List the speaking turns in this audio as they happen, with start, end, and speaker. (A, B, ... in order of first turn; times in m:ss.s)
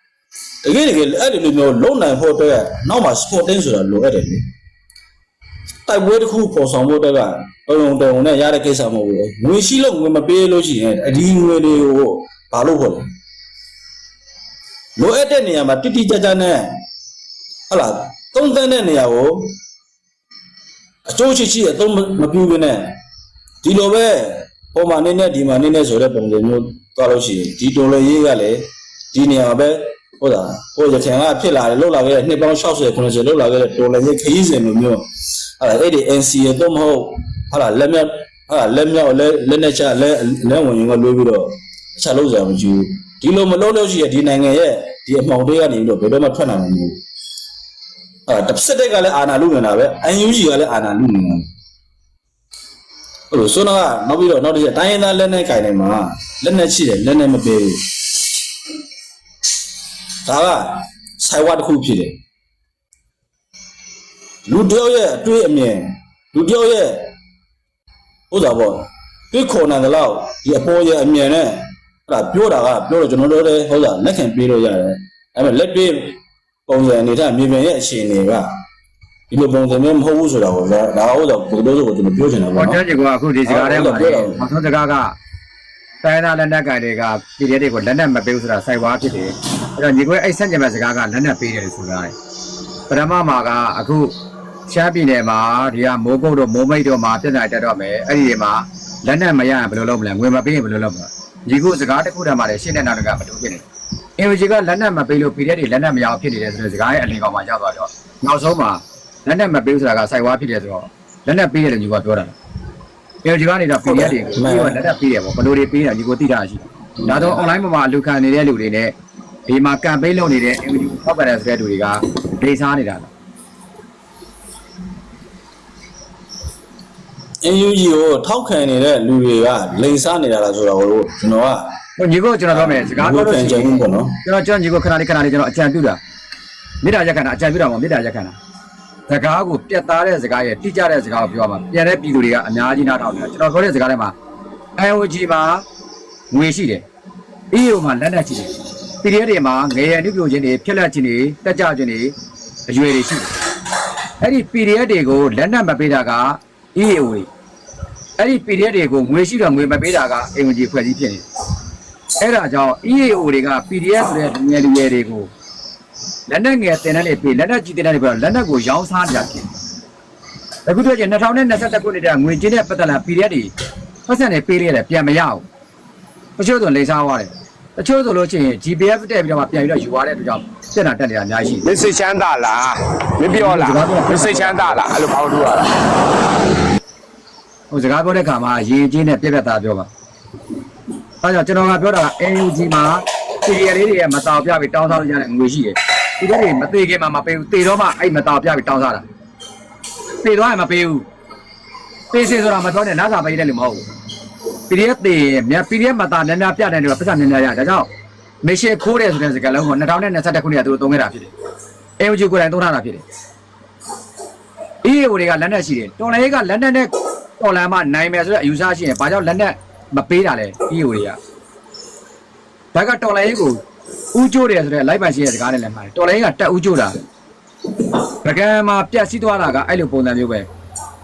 0:00.6-0:04.5 A
0:05.9-0:13.1 A
0:15.0-0:16.8 A
0:17.7-0:19.6 A
0:21.0-0:22.9 A
0:23.6-0:35.0 A
0:35.6-0:47.0 A
0:48.3-0:51.5 A
0:53.3-0:58.0 A
1:00.2-1:02.2 A
1:04.5-1:07.0 A
1:08.3-1:18.5 A
1:19.3-1:22.8 A
1:22.5-1:25.1 B
1:23.4-1:24.4 A
1:26.0-1:32.1 B
1:32.9-1:34.1 B
1:34.7-1:43.6 B
1:44.2-1:52.3 B
1:53.2-1:58.9 B
1:53.8-1:54.8 A
1:57.1-1:57.4 A
1:59.5-2:03.1 B
2:07.4-2:11.7 A
2:12.0-2:16.0 B
2:12.5-2:14.2 A
2:16.8-2:18.4 B
2:19.1-2:24.1 B
2:24.8-2:25.6 B
2:26.3-2:26.8 B
2:27.5-2:32.1 B
2:32.7-2:33.3 B
2:34.2-2:37.3 B
2:38.2-2:41.2 B
2:42.2-2:45.3 B
2:46.3-2:49.5 B
2:50.6-2:53.5 B
2:54.1-2:55.4 B
2:56.4-3:01.6 B
3:01.6-3:05.8 C
3:03.3-3:04.8 B
3:07.7-3:09.9 B
3:11.2-3:19.0 B
3:20.2-3:21.0 B
3:22.1-3:23.8 B
3:24.7-3:27.9 B
3:28.4-3:31.3 B
3:32.0-3:33.0 B
3:34.8-3:41.2 B
3:42.7-3:43.6 B
3:44.1-3:47.0 B
3:48.2-3:50.5 B